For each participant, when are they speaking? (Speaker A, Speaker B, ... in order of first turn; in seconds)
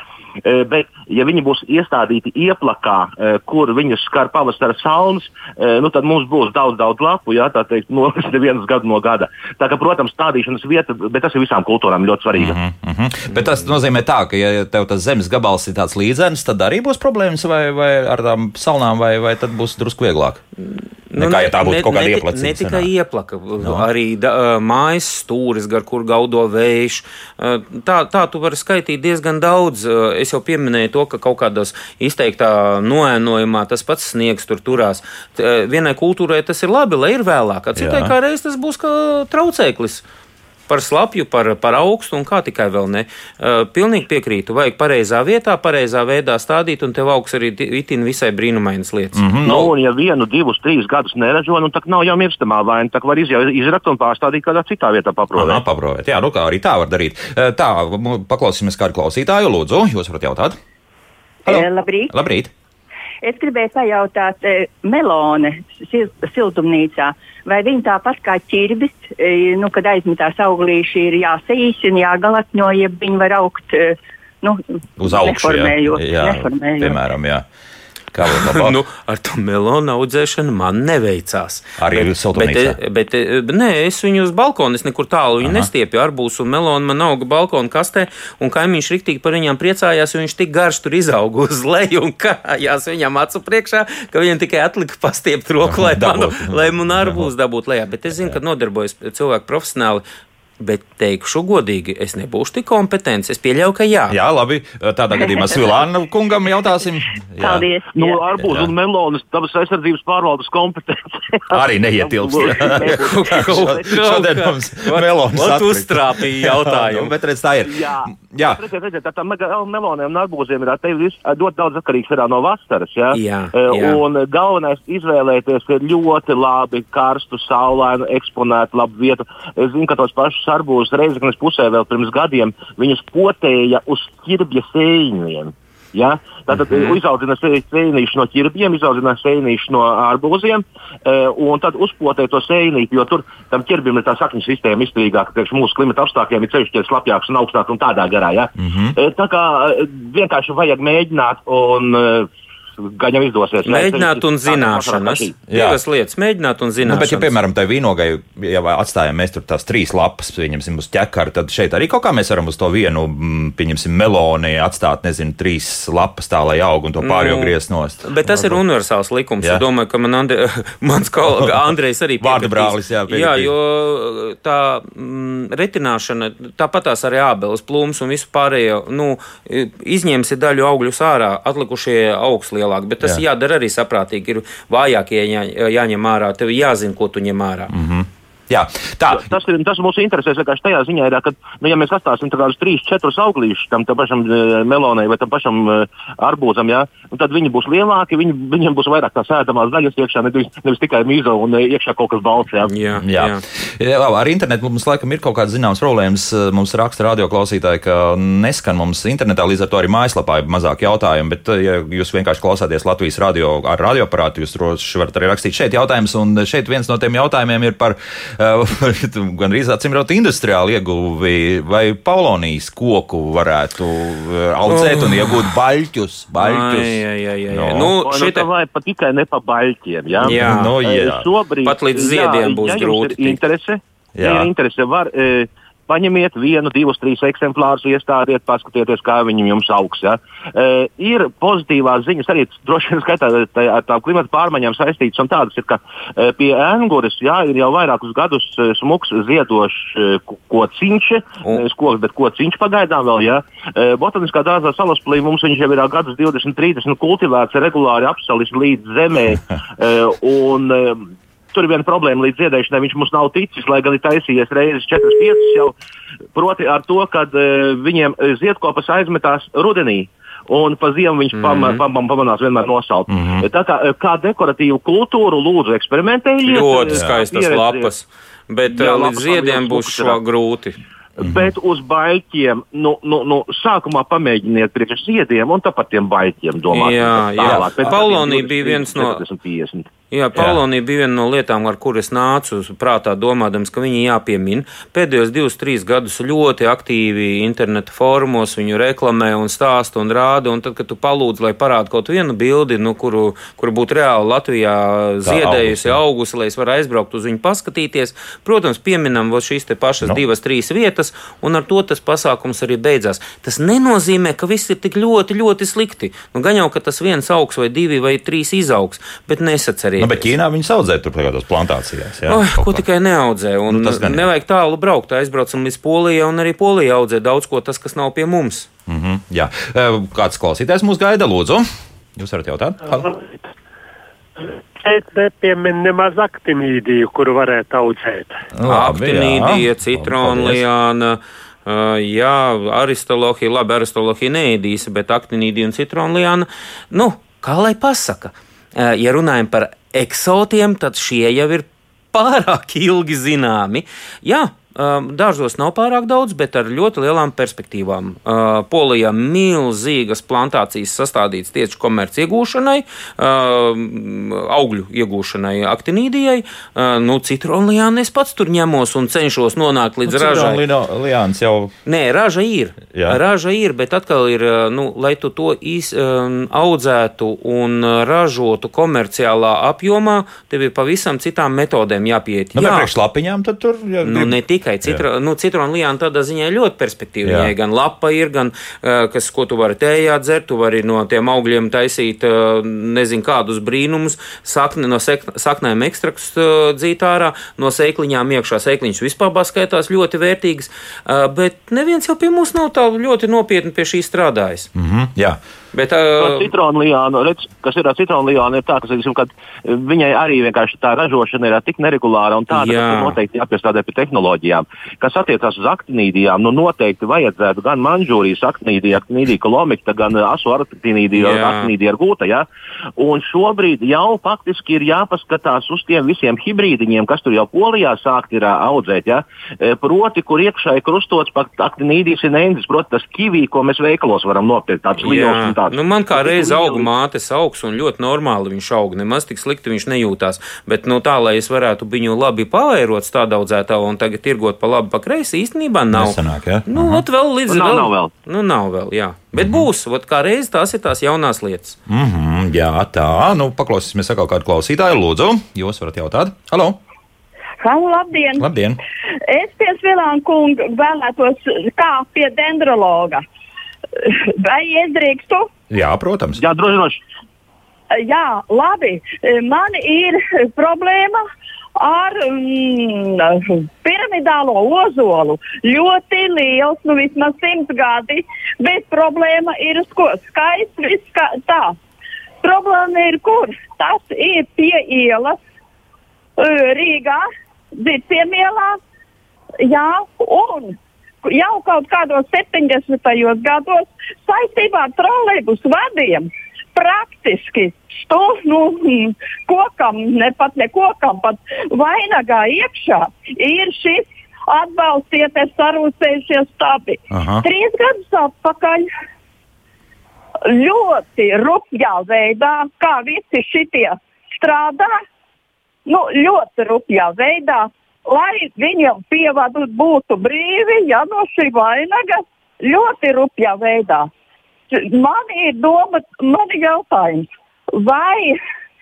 Speaker A: 0.4-12.6, 49.4-55.6, 107.9-113.8, 117.7-152.3, 152.9-155.4, 189.1-202.7, 227.9-265.8, 266.3-277.9, 278.6-280.2, 281.2-289.9, 406.1-436.9, 447.5-448.1, 466.4-467.0
Speaker B: 12.3-20.4, 21.2-22.9, 23.6-23.9, 37.8-38.1, 49.1-49.7, 55.3-60.6, 61.5-62.5, 75.0-77.4, 78.1-78.8, 81.8-82.8, 85.4-85.7, 95.6-97.3, 98.1-98.4, 104.1-107.7, 108.4-108.7, 111.5-118.6, 148.6-148.9, 155.5-155.8, 156.8-168.6, 172.2-173.5, 187.7-189.3, 203.0-227.9, 230.2-231.3, 234.2-234.5, 273.1-273.4, 281.2-281.5, 287.4-287.7, 290.4-290.6, 305.2-306.0, 320.0-322.9, 323.7-324.3, 328.9-333.1, 338.5-340.6, 370.1-371.7, 372.9-373.2, 382.5-385.0, 387.2-387.5, 404.7-405.4, 445.9-447.0, 449.3-449.7, 451.9-456.8, 458.4-458.8, 465.7-466.4, 507.1-507.4
Speaker C: 20.6-40.0, 40.7-49.2, 78.2-100.0, 100.6-104.2, 112.8-117.1, 123.1-124.0, 136.5-137.0, 153.6-157.3, 167.0-187.7, 202.7-203.4, 224.7-225.3, 226.4-228.5, 230.2-230.7, 231.6-233.4, 271.3-271.8, 276.4-280.8, 286.7-289.2, 290.1-320.3, 322.3-328.7, 338.6-370.6, 371.9-382.9, 384.0-404.7, 405.7-406.5, 412.5-413.2, 421.1-421.7, 435.0-451.8
Speaker D: 61.5-62.1, 63.2-77.0
Speaker E: 332.9-333.4, 334.8-338.3
Speaker F: 457.6-458.5, 459.3-463.2, 464.0-465.5, 467.9-471.2, 471.8-481.8, 482.4-485.4, 486.4-487.2, 487.7-488.8, 489.6-508.8, 510.5-515.0, 515.9-524.1, 524.7-528.4